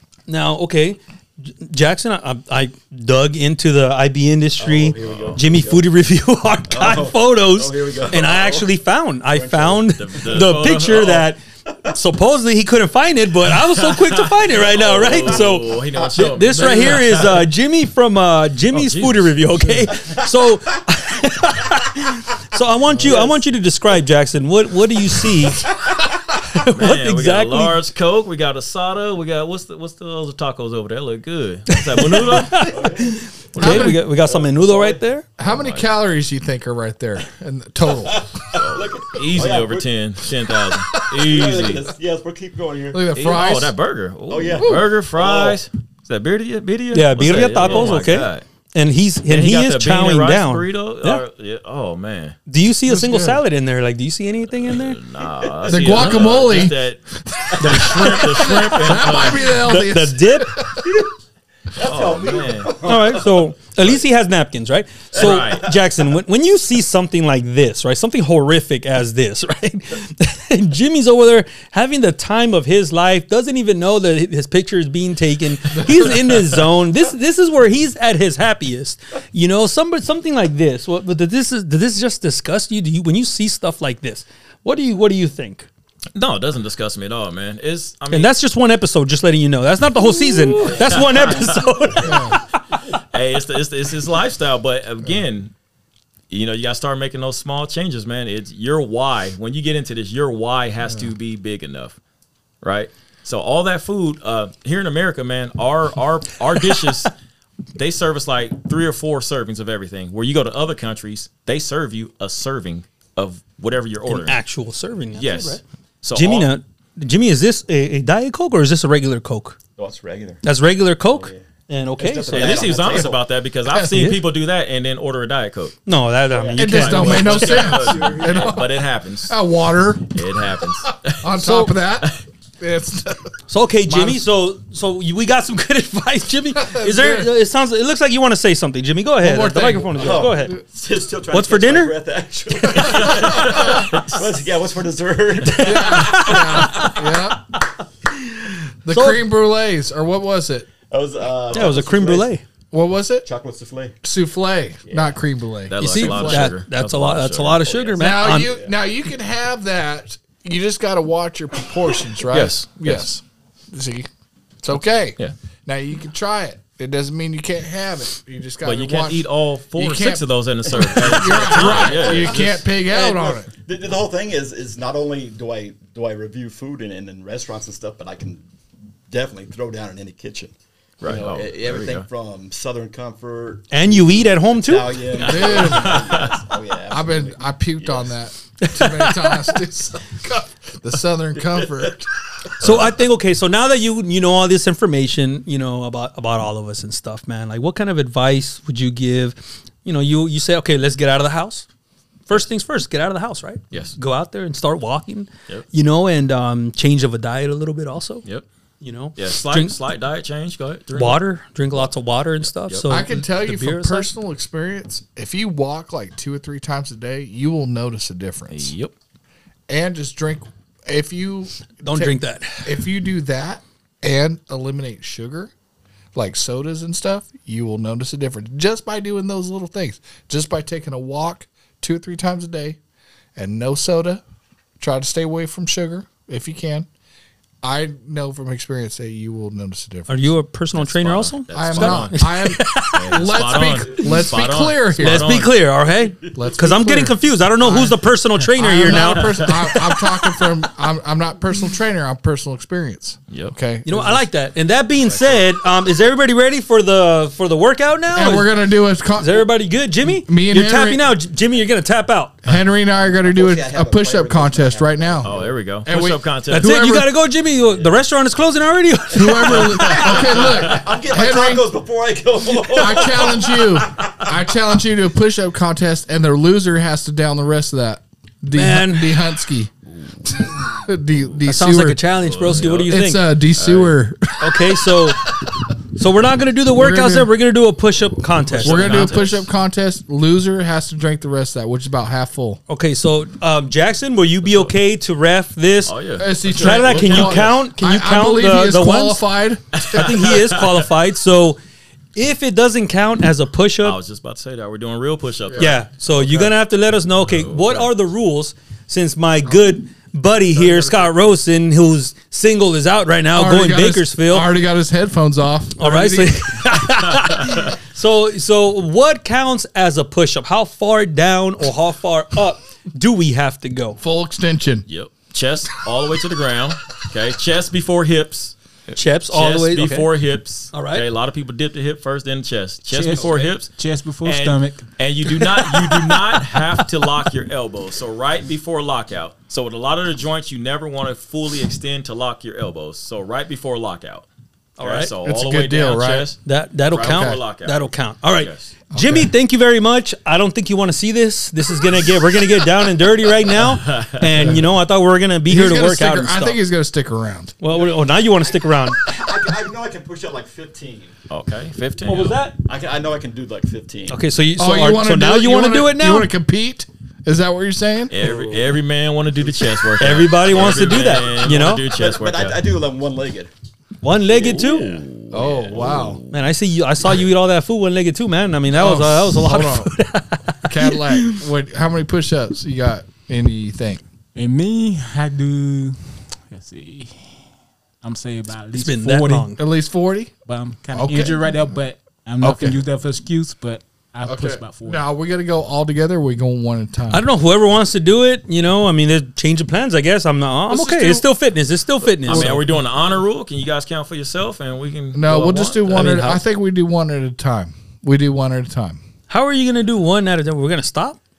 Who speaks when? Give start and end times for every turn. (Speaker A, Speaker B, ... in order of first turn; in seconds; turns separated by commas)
Speaker A: 0.3-25.7, Speaker B: 4.6-5.9, Speaker C: 5.0-5.4, Speaker B: 6.7-8.7, Speaker B: 9.3-10.5, Speaker C: 9.9-11.3, Speaker C: 13.6-17.3, Speaker B: 14.7-17.3, Speaker C: 18.7-19.8, Speaker B: 23.0-23.4, Speaker B: 25.7-26.0, Speaker A: 26.5-27.8, Speaker C: 26.6-32.8, Speaker A: 31.7-35.2, Speaker B: 32.6-35.0, Speaker D: 33.5-34.0, Speaker D: 35.4-38.3, Speaker C: 35.4-35.9, Speaker B: 38.0-39.9, Speaker C: 38.5-41.9, Speaker B: 40.5-43.6, Speaker D: 42.9-43.8, Speaker C: 43.1-48.4, Speaker B: 44.3-45.6, Speaker D: 44.6-44.9, Speaker A: 46.9-51.2, Speaker B: 47.6-47.9, Speaker C: 49.3-52.4, Speaker A: 52.5-55.0, Speaker D: 52.9-53.4, Speaker C: 54.6-57.0, Speaker B: 55.2-56.6, Speaker D: 55.7-60.9, Speaker C: 57.6-59.8, Speaker A: 59.6-60.5, Speaker B: 60.8-61.1, Speaker B: 61.7-64.0, Speaker C: 61.8-62.8, Speaker A: 62.8-85.7, Speaker B: 65.1-65.8, Speaker C: 65.2-65.7, Speaker D: 75.7-76.3, Speaker C: 86.1-88.3, Speaker A: 88.1-92.4, Speaker C: 90.6-91.7, Speaker B: 90.7-91.3, Speaker D: 92.0-92.4, Speaker C: 93.1-95.5, Speaker C: 96.3-102.0, Speaker C: 102.6-107.1, Speaker C: 107.8-114.4, Speaker A: 114.0-115.6, Speaker C: 115.1-116.5, Speaker A: 116.1-119.6, Speaker B: 119.8-120.4, Speaker A: 120.4-122.8, Speaker B: 121.1-121.4, Speaker B: 122.0-123.2, Speaker C: 122.3-125.8, Speaker D: 123.7-124.0, Speaker A: 123.9-124.2, Speaker A: 125.8-127.5, Speaker B: 126.3-128.6, Speaker C: 126.5-129.4, Speaker D: 126.5-130.3, Speaker C: 130.1-132.2, Speaker D: 131.1-133.3, Speaker A: 131.4-131.7, Speaker A: 133.5-140.6, Speaker D: 133.9-134.2, Speaker D: 136.6-137.3, Speaker D: 139.2-140.6, Speaker B: 139.9-146.8, Speaker A: 141.3-141.9, Speaker A: 142.7-143.1, Speaker C: 142.8-144.2, Speaker D: 143.4-143.8, Speaker A: 145.4-147.2, Speaker D: 145.6-147.5, Speaker D: 148.8-150.7, Speaker A: 148.9-149.2, Speaker B: 150.9-152.3, Speaker A: 151.5-152.4, Speaker D: 152.7-153.3, Speaker B: 153.2-154.0, Speaker D: 154.0-156.5, Speaker B: 154.9-155.2, Speaker C: 155.7-157.9, Speaker A: 155.8-158.5, Speaker B: 157.7-158.7, Speaker D: 158.0-164.1, Speaker C: 162.3-163.1, Speaker D: 164.6-173.5, Speaker C: 168.6-172.6, Speaker B: 171.0-178.4, Speaker B: 179.1-188.1, Speaker C: 181.0-182.1, Speaker A: 183.7-185.1, Speaker C: 185.2-186.3, Speaker D: 185.2-186.2, Speaker D: 186.9-192.1, Speaker A: 188.6-189.5, Speaker B: 191.4-191.9, Speaker A: 192.6-201.7, Speaker A: 202.3-208.2, Speaker C: 203.7-204.0, Speaker A: 208.8-209.8, Speaker C: 209.2-211.9, Speaker A: 210.9-214.1, Speaker C: 212.4-212.8, Speaker D: 212.9-218.7, Speaker C: 218.5-218.9, Speaker D: 219.7-225.5, Speaker A: 221.8-222.7, Speaker D: 226.1-232.8, Speaker D: 233.3-234.2, Speaker D: 234.8-236.9, Speaker D: 237.6-240.3, Speaker A: 240.1-243.3, Speaker C: 240.7-242.2, Speaker D: 241.5-245.5, Speaker C: 242.8-245.6, Speaker A: 245.0-250.4, Speaker D: 246.3-254.2, Speaker C: 248.9-249.7, Speaker C: 253.3-253.6, Speaker A: 253.8-258.5, Speaker D: 258.1-259.5, Speaker A: 259.2-262.4, Speaker D: 260.0-261.1, Speaker D: 262.4-265.3, Speaker B: 262.9-265.6, Speaker C: 265.2-266.7, Speaker D: 265.8-267.1, Speaker A: 266.5-270.3, Speaker D: 269.1-271.7, Speaker C: 269.6-270.1, Speaker B: 269.7-273.6, Speaker D: 272.7-279.7, Speaker A: 278.5-279.2, Speaker D: 280.3-282.0, Speaker A: 281.5-283.2, Speaker C: 282.2-282.9, Speaker D: 282.6-285.5, Speaker C: 283.6-283.9, Speaker A: 284.4-285.2, Speaker A: 285.9-289.1, Speaker D: 286.7-287.3, Speaker C: 288.5-289.4, Speaker D: 288.6-292.6, Speaker A: 292.7-295.9, Speaker C: 295.9-297.6, Speaker D: 296.2-300.2, Speaker A: 296.5-299.2, Speaker C: 299.7-300.9, Speaker A: 299.9-301.6, Speaker A: 302.1-304.0, Speaker C: 303.8-306.5, Speaker A: 305.6-314.5, Speaker C: 307.2-307.9, Speaker D: 313.3-316.9, Speaker A: 315.8-324.0, Speaker D: 324.0-324.8, Speaker C: 324.9-333.7, Speaker A: 328.9-330.1, Speaker A: 330.7-331.0, Speaker E: 332.9-334.9, Speaker B: 333.2-333.4, Speaker C: 334.2-344.2, Speaker A: 335.4-336.4, Speaker A: 344.8-345.1, Speaker C: 344.8-348.7, Speaker D: 345.2-346.3, Speaker A: 346.4-356.6, Speaker D: 347.1-347.3, Speaker D: 348.9-349.3, Speaker C: 353.8-354.6, Speaker D: 354.4-354.6, Speaker D: 355.5-357.6, Speaker A: 357.6-359.0, Speaker B: 357.7-358.0, Speaker B: 359.0-361.1, Speaker C: 361.3-362.4, Speaker A: 362.0-362.6, Speaker B: 362.6-364.2, Speaker A: 364.1-366.3, Speaker D: 364.6-368.1, Speaker C: 368.1-372.6, Speaker B: 368.2-368.7, Speaker A: 370.0-371.8, Speaker B: 370.8-373.5, Speaker A: 374.0-375.0, Speaker B: 374.3-375.0, Speaker C: 374.3-376.3, Speaker D: 375.3-376.2, Speaker A: 376.3-381.4, Speaker D: 378.7-379.9, Speaker D: 380.6-384.0, Speaker E: 384.3-387.2, Speaker E: 388.0-389.5, Speaker A: 388.7-389.6, Speaker D: 389.6-390.3, Speaker E: 390.4-395.0, Speaker D: 390.9-391.4, Speaker D: 392.4-392.8, Speaker D: 394.2-397.2, Speaker A: 397.1-402.6, Speaker D: 400.7-401.2, Speaker C: 402.2-406.1, Speaker D: 402.3-402.6, Speaker D: 405.1-409.0, Speaker A: 405.9-406.4, Speaker A: 409.3-411.2